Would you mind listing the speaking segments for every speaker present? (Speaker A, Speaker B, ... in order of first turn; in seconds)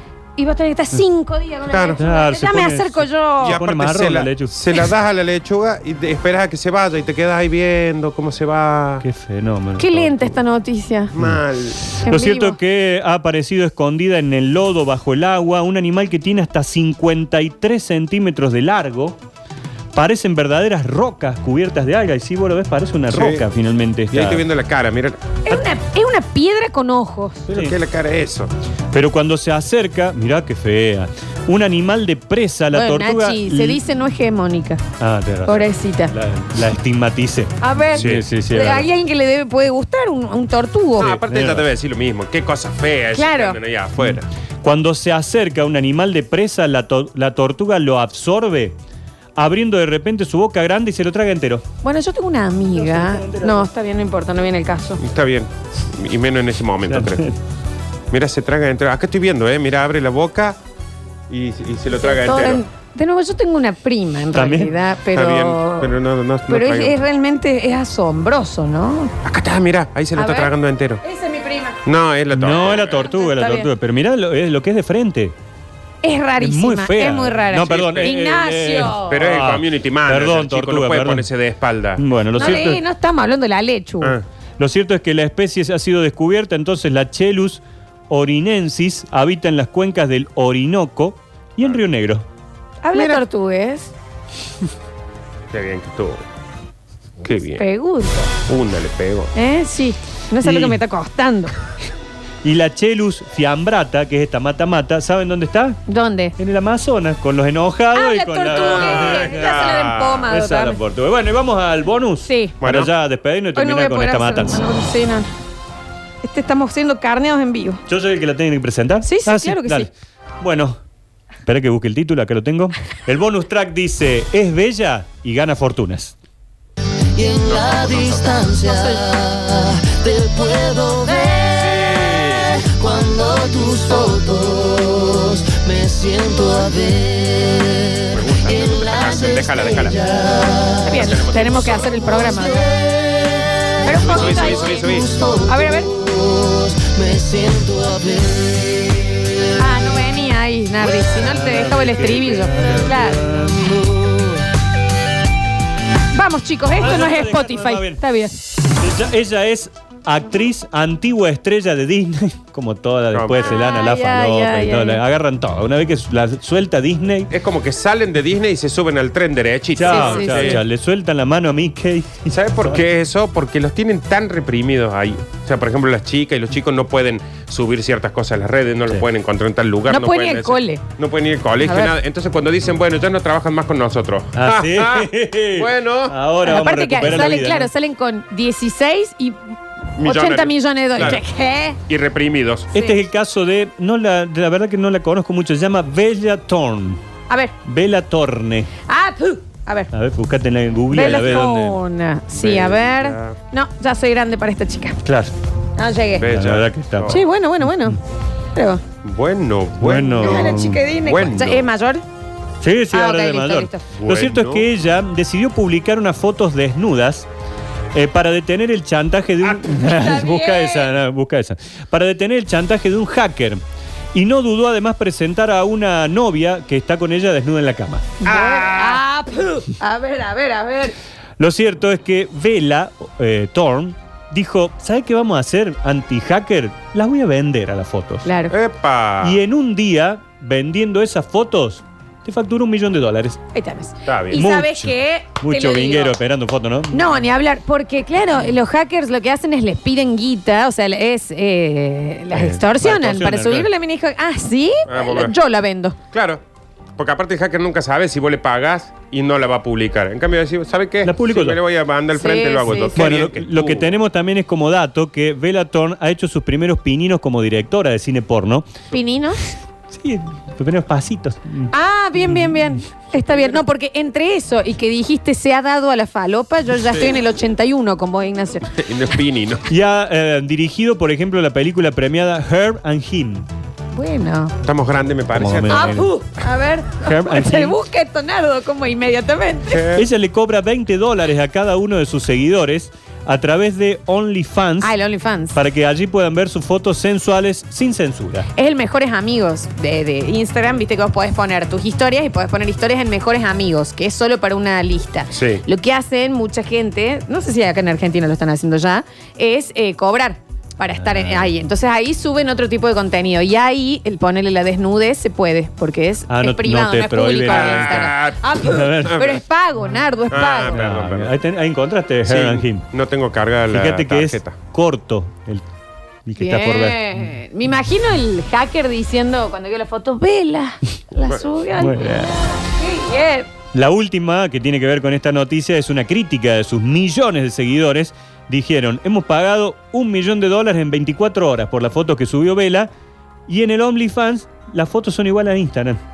Speaker A: 0.3-3.6, 9.8-11.1, 12.0-12.6, 25.4-27.4, 32.7-34.8, 35.5-36.1, 37.6-41.2, 43.1-43.6, 51.8-55.0, 62.0-65.9, 66.5-69.1, 70.1-71.8, 72.6-73.7, 76.0-79.2, 82.3-84.2, 92.8-93.9, 97.5-98.3, 99.3-101.5, 105.9-106.3, 107.9-110.8, 112.2-112.6, 113.5-115.3, 116.2-117.8, 119.0-119.9, 140.8-142.6, 143.8-144.8, 145.4-145.9, 149.6-153.3, 156.1-158.3, 163.4-165.0, 169.8-170.6, 179.9-180.8, 181.6-181.9, 186.4-191.8, 197.3-197.5, 198.9-199.9, 200.9-205.0, 205.8-206.3, 207.1-208.0, 208.5-208.8, 210.2-212.0, 212.9-213.8, 219.6-220.9, 228.2-230.9, 238.2-238.5, 243.5-246.1, 246.9-256.0, 262.1-263.0, 268.9-269.5, 271.7-278.7, 283.9-284.5, 285.7-289.9, 294.8-295.6, 298.6-320.8, 326.4-333.5
Speaker B: 1.7-2.0, 3.4-9.0, 11.1-11.8, 23.1-23.4, 24.1-25.2, 27.5-28.5, 37.9-38.3, 41.0-44.3, 55.0-57.2, 58.1-60.6, 61.3-62.6, 65.1-67.0, 69.2-71.0, 71.8-73.0, 77.8-78.1, 79.0-82.6, 92.9-93.2, 95.5-96.2, 97.2-97.7, 98.5-99.3, 108.5-110.3, 112.6-112.9, 127.5-128.3, 131.6-132.4, 138.1-140.0, 140.9-141.9, 143.9-145.1, 163.1-163.5, 167.3-170.6, 172.3-186.1, 190.0-191.2, 191.8-192.7, 202.3-203.3, 206.2-207.2, 209.0-211.7, 213.9-214.7, 228.3-229.0, 238.5-239.4, 244.1-244.4, 254.9-255.3, 256.1-256.4, 257.0-263.9, 276.9-277.2, 278.7-279.6, 284.6-286.1, 289.7-290.1, 305.3-305.6, 317.5-318.5, 319.0-319.4, 320.3-321.3, 322.2-324.6
Speaker C: 1.9-4.6, 9.0-10.4, 11.9-19.2, 19.9-24.4, 27.5-27.8, 28.9-33.8, 35.0-38.9, 41.0-41.7, 44.0-48.8, 49.4-51.6, 52.7-53.7, 56.9-57.4, 64.3-64.8, 72.3-75.3, 76.4-81.3, 82.0-82.8, 84.6-92.2, 100.4-100.8, 102.4-105.8, 106.4-114.7, 117.9-120.8, 121.4-126.2, 151.0-153.7, 156.8-158.0, 158.7-167.3, 169.7-172.8, 184.3-187.7, 192.7-197.0, 197.6-198.7, 199.9-201.8, 205.0-205.3, 206.2-208.0, 209.8-210.8, 212.6-217.3, 217.9-223.6, 224.1-228.2, 231.4-238.3, 239.2-243.4, 244.3-247.1, 252.3-253.7, 261.0-261.6, 262.9-268.7, 269.9-271.7, 272.2-272.6, 279.7-283.5, 285.3-286.1, 287.0-287.8, 289.9-294.9, 295.5-298.5, 310.9-311.5, 316.3-319.3, 320.7-322.8, 323.7-325.6, 326.2-327.2, 331.8-332.4, 333.7-342.9, 343.5-346.0
Speaker D: 127.1-149.2